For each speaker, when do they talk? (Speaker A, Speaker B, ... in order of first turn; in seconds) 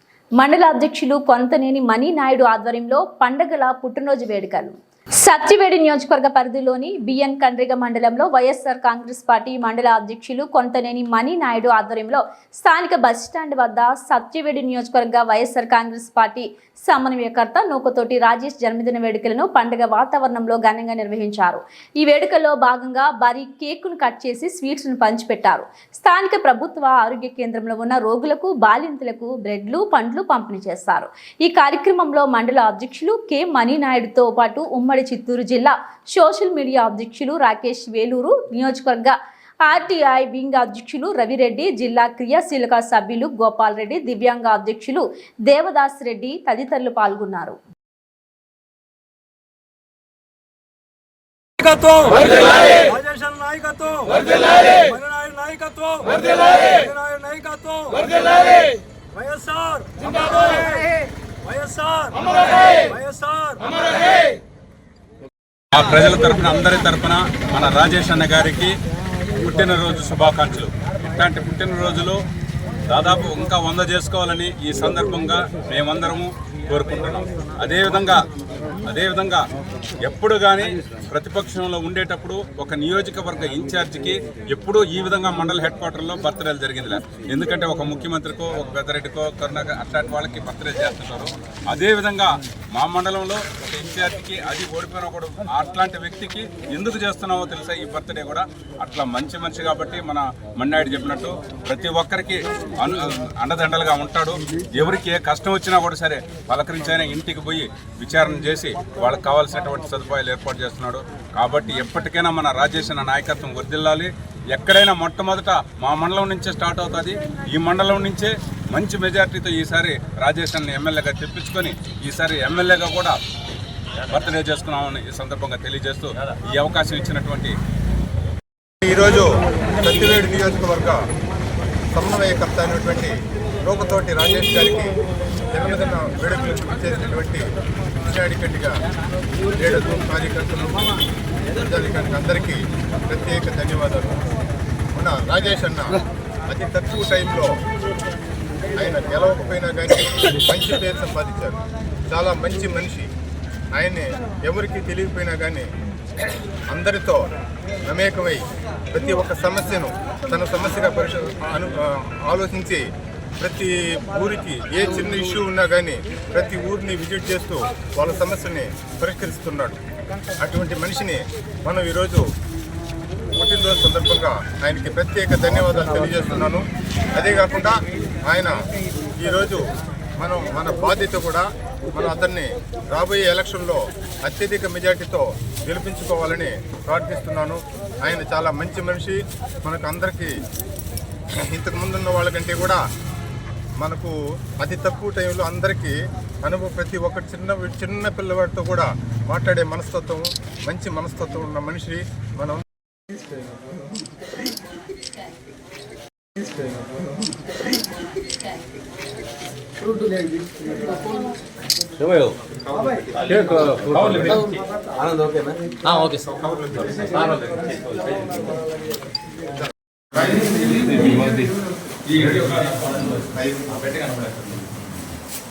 Speaker A: 0.4-47.6
Speaker B: 51.6-64.1
Speaker C: 65.7-68.8, 69.3-72.2, 72.9-78.2, 78.8-79.4, 80.0-123.2, 124.1-127.6, 214.0-214.3, 220.8-221.3, 222.1-222.4
Speaker D: 128.8-131.0, 131.9-137.5, 138.0-138.8, 139.6-140.9, 141.5-144.2, 144.9-147.6, 148.7-151.6, 152.1-153.1, 153.7-155.7, 156.7-157.3, 157.8-162.9, 163.4-169.8, 170.4-172.2, 173.3-177.8, 178.3-178.6, 179.2-179.6, 180.2-190.4, 191.4-192.8, 193.8-202.6, 216.3-217.1
Speaker E: 212.0-212.3, 213.2-214.5, 215.9-218.3, 220.3-221.3, 222.2-224.7